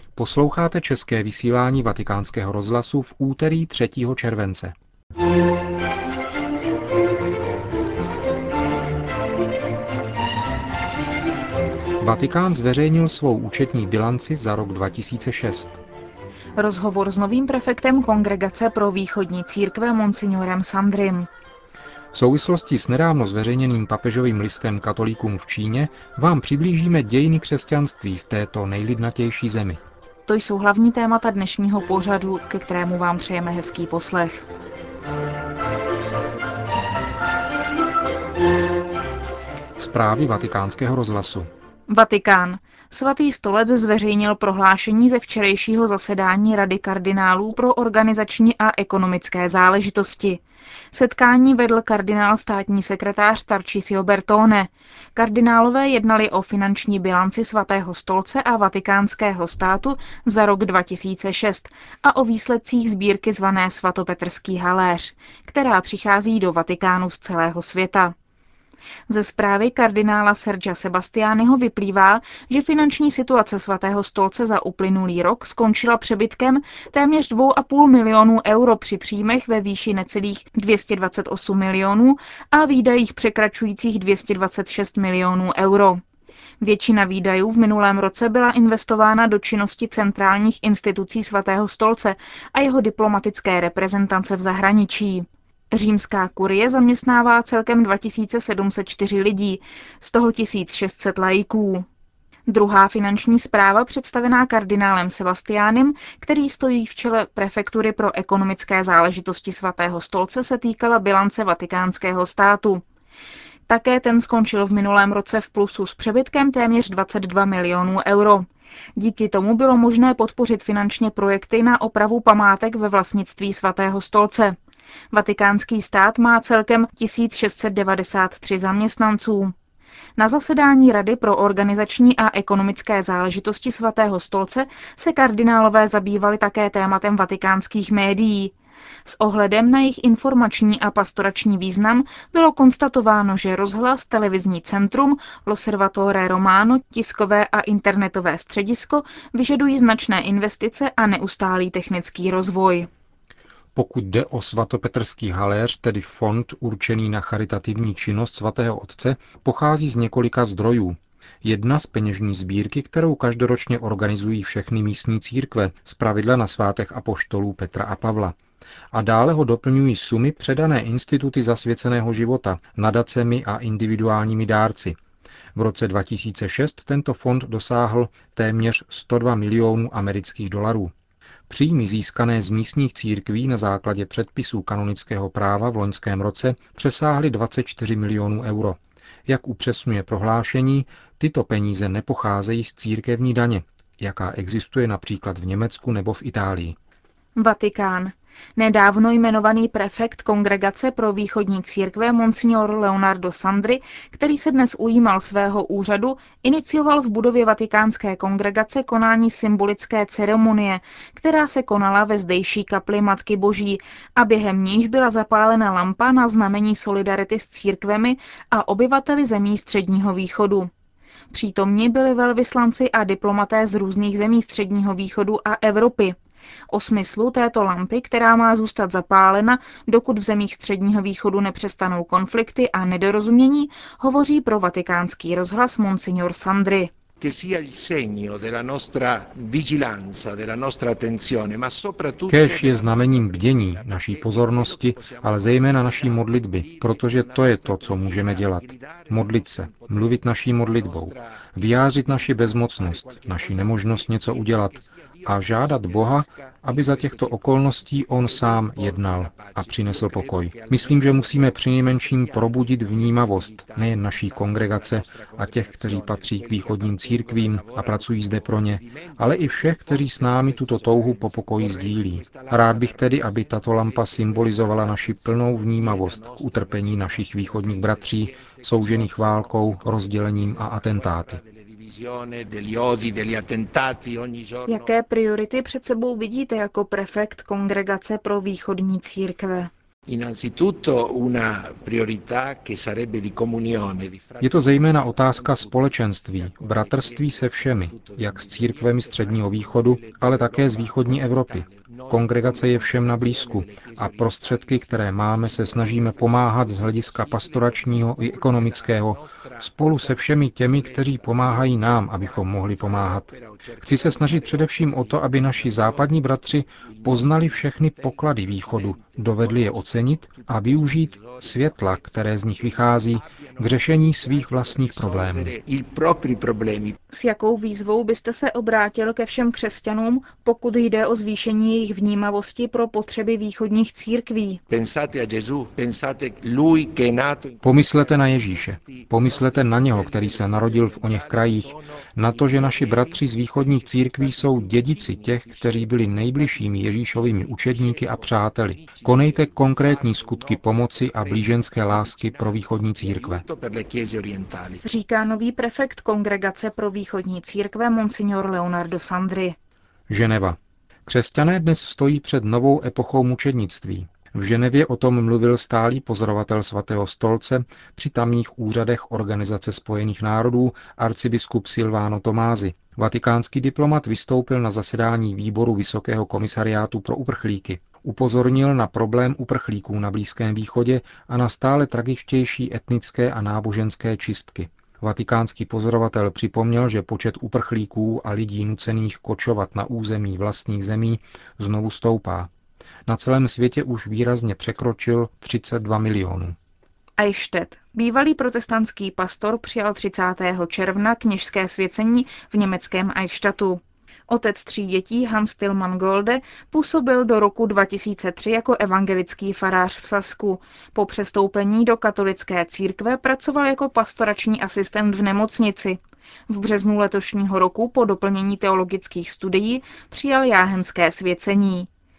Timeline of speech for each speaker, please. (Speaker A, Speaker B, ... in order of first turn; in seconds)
Speaker A: 0.2-4.8, 12.0-15.8, 22.1-29.8, 39.8-41.5, 153.8-168.4, 168.9-175.0, 175.6-180.9, 181.5-196.8, 242.3-281.4, 294.4-325.6, 337.6-353.4, 360.1-392.5, 393.1-396.6
Speaker B: 16.6-21.3, 30.3-34.5, 41.9-50.4, 50.9-68.1, 69.1-86.0, 86.6-101.9, 102.5-112.8, 113.7-124.6, 125.1-129.5, 130.2-138.5, 139.1-152.9, 197.4-220.7, 221.3-226.2, 226.7-236.9, 284.7-289.7, 327.1-334.6, 354.8-359.6, 397.2-421.9
Speaker C: 237.2-284.9, 290.1-327.0, 334.7-354.8